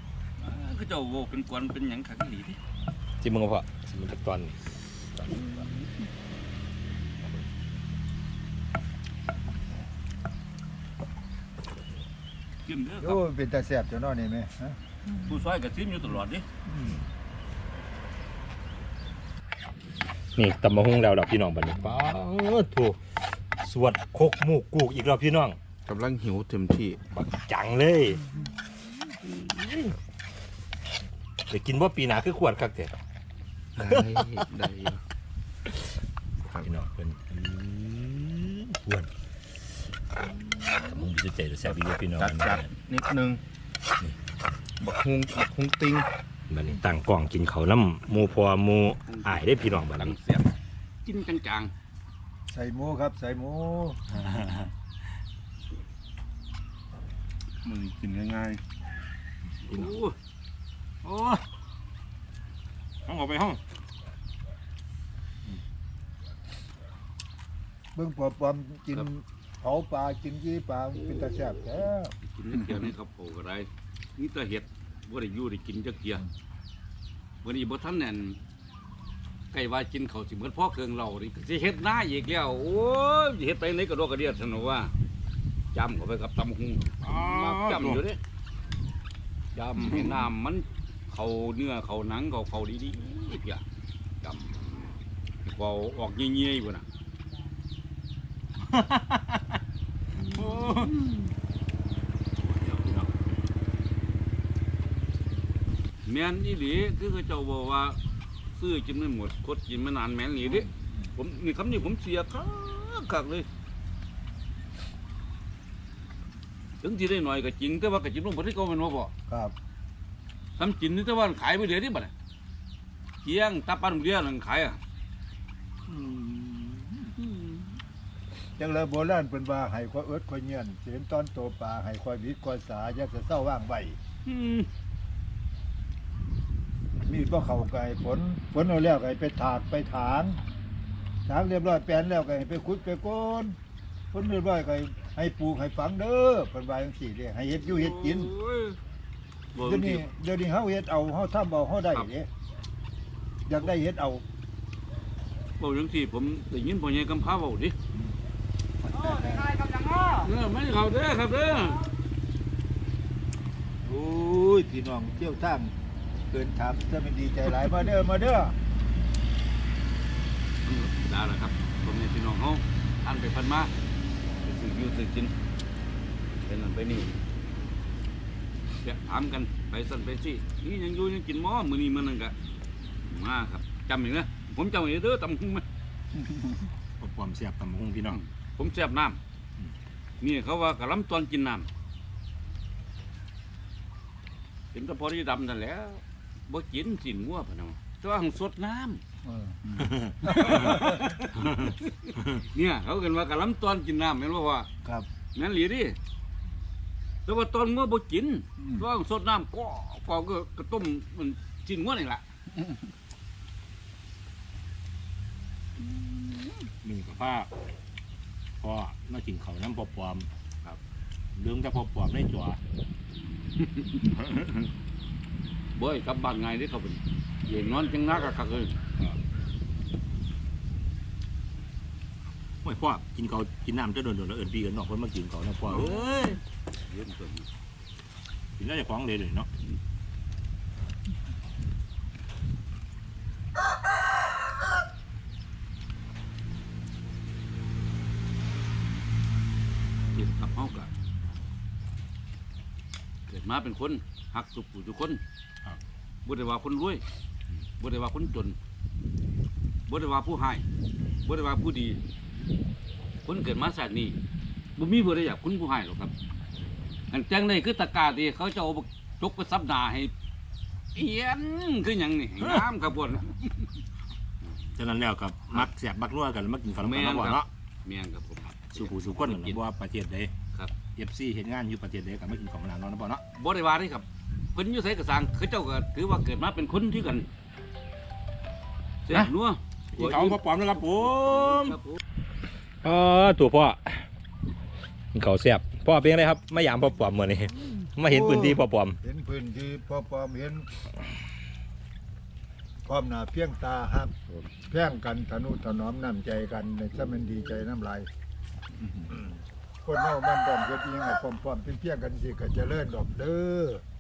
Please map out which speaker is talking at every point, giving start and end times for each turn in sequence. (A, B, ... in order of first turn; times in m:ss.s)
0:00.4-0:02.6 A
0:03.2-0:04.6 B
0:05.3-0:05.6 A
0:12.6-0:13.2 A
0:13.0-0:14.8 C
0:15.3-0:16.4 A
0:16.7-0:17.0 C
0:20.4-0:25.6 B
0:25.8-0:27.0 D
0:27.1-0:28.3 B
0:29.2-0:29.9 B
0:31.5-0:32.9 B
0:33.8-0:35.0 D
0:36.4-0:36.7 D
0:36.6-0:39.1 B
0:40.8-0:42.7 B
0:42.2-0:43.4 D
0:44.8-0:46.1 D
0:46.5-0:50.2 B
0:49.1-0:50.5 A
0:51.0-0:51.7 A
0:52.5-0:54.0 C
0:54.1-0:54.7 B
0:57.6-0:58.6 D
0:59.6-1:00.0 B
0:59.7-1:00.2 A
1:01.0-1:01.4 B
1:03.0-1:03.6 B
1:08.0-1:12.1 C
1:11.2-1:11.6 A
1:12.3-1:16.2 A
1:17.4-1:18.4 A
1:19.5-1:24.9 A
1:25.7-1:28.2 A
1:27.0-1:28.0 B
1:29.5-1:33.6 A
1:29.8-1:30.3 B
1:34.2-1:36.9 A
1:38.6-1:39.6 B
1:40.2-1:41.2 B
1:40.3-1:40.9 A
1:42.4-1:43.1 B
1:46.0-1:48.0 A
1:48.6-1:53.5 A
1:50.5-1:51.0 C
1:56.8-1:59.1 A
1:59.3-1:59.5 C
2:00.6-2:02.1 A
2:03.2-2:04.8 A
2:05.9-2:07.2 C
2:07.3-2:07.7 A
2:08.6-2:14.0 C
2:14.3-2:14.7 A
2:17.1-2:20.4 C
2:21.3-2:23.6 C
2:24.1-2:28.3 C
2:27.6-2:28.8 A
2:29.6-2:30.1 A
2:29.6-2:32.3 C
2:33.5-2:34.2 C
2:35.6-2:37.8 A
2:38.8-2:39.6 C
2:40.1-2:41.8 A
2:43.8-2:45.7 C
2:46.3-2:48.6 C
2:50.6-2:53.7 A
2:54.4-2:55.3 A
2:56.4-2:57.1 A
2:58.8-3:02.3 A
3:03.0-3:05.6 A
3:07.0-3:08.2 B
3:08.1-3:09.2 A
3:10.2-3:11.7 A
3:14.7-3:19.0 A
3:19.2-3:20.9 C
3:19.8-3:20.1 B
3:20.3-3:24.7 A
3:25.4-3:26.0 A
3:27.3-3:32.2 A
3:28.6-3:28.9 C
3:36.8-3:37.5 B
3:38.6-3:40.3 B
3:41.4-3:42.6 B
3:43.6-3:44.4 A
3:45.8-3:48.8 A
3:52.6-3:56.4 B
3:55.6-3:57.5 A
3:58.6-3:59.5 B
4:10.1-4:10.9 A
4:13.3-4:15.2 A
4:16.3-4:17.0 A
4:17.8-4:18.6 A
4:19.9-4:20.6 A
4:21.2-4:22.0 A
4:23.2-4:24.2 A
4:24.8-4:26.1 A
4:27.1-4:30.1 A
4:31.0-4:33.7 A
4:32.4-4:32.7 B
4:34.8-4:37.5 B
4:36.8-4:39.6 A
4:38.7-4:40.3 B
4:41.0-4:43.2 B
4:43.3-4:47.3 A
4:49.1-4:52.0 A
4:49.9-4:51.8 B
4:52.8-4:54.1 B
4:55.1-4:59.0 B
4:58.1-5:00.7 C
5:02.8-5:04.1 C
5:04.7-5:08.1 C
5:09.1-5:13.8 C